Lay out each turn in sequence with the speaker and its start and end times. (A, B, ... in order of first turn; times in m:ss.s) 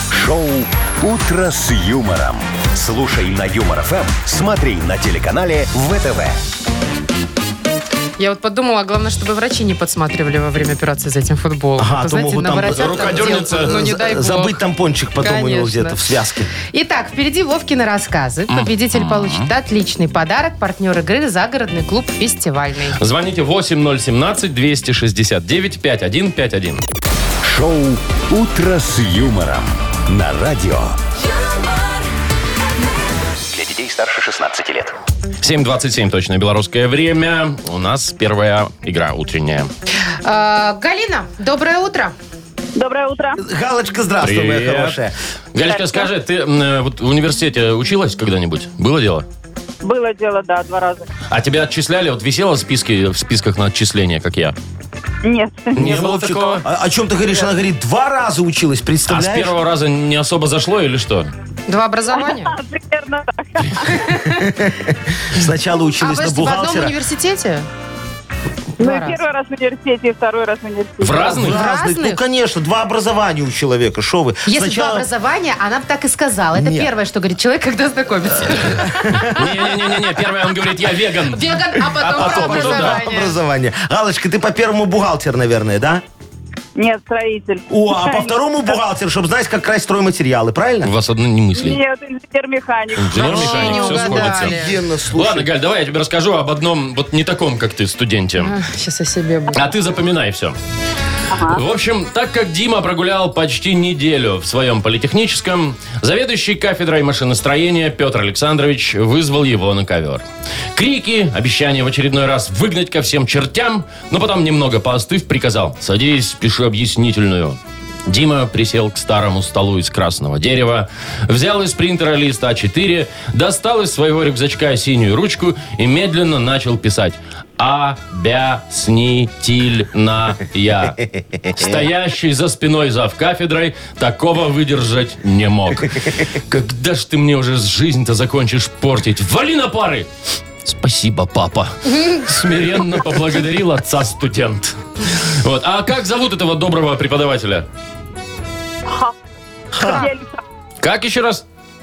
0:00.1-0:06.4 A
0:08.2-0:14.6 B
0:11.8-0:16.5 C
0:12.7-0:13.8 D
0:15.2-0:16.0 B
0:16.7-0:23.0 B
0:18.5-0:19.5 D
0:23.0-0:26.8 D
0:27.4-0:31.0 A
0:33.5-0:35.0 A
0:35.4-0:39.7 D
0:40.2-0:42.1 B
0:42.8-0:43.4 E
0:43.4-0:45.2 C
0:44.2-0:45.0 D
0:45.5-0:49.2 D
0:45.6-0:46.1 E
0:49.8-0:51.1 E
0:51.3-0:54.6 D
0:55.2-0:56.6 E
0:55.7-0:56.6 D
0:55.8-0:56.1 C
0:56.6-0:59.5 C
0:59.1-1:01.3 D
1:01.7-1:02.5 B
1:02.1-1:04.1 E
1:03.9-1:04.5 B
1:04.4-1:07.0 C
1:06.0-1:07.7 B
1:08.8-1:09.2 B
1:08.8-1:11.4 E
1:11.0-1:11.6 D
1:11.3-1:15.1 C
1:11.4-1:12.2 B
1:14.4-1:19.5 B
1:16.5-1:16.9 C
1:18.5-1:19.4 C
1:19.2-1:23.0 D
1:21.3-1:23.3 B
1:22.0-1:26.0 C
1:26.8-1:28.3 E
1:27.7-1:30.9 C
1:30.8-1:31.8 D
1:31.5-1:33.6 E
1:33.0-1:34.6 D
1:33.1-1:35.5 C
1:33.2-1:34.7 B
1:35.1-1:38.5 D
1:38.4-1:39.6 B
1:39.5-1:40.6 D
1:41.3-1:41.6 E
1:41.4-2:20.1 D
2:10.9-2:11.9 C
2:20.6-2:27.7 D
2:28.9-2:29.1 E
2:29.7-2:30.1 C
2:29.7-2:30.4 E
2:30.8-2:31.4 D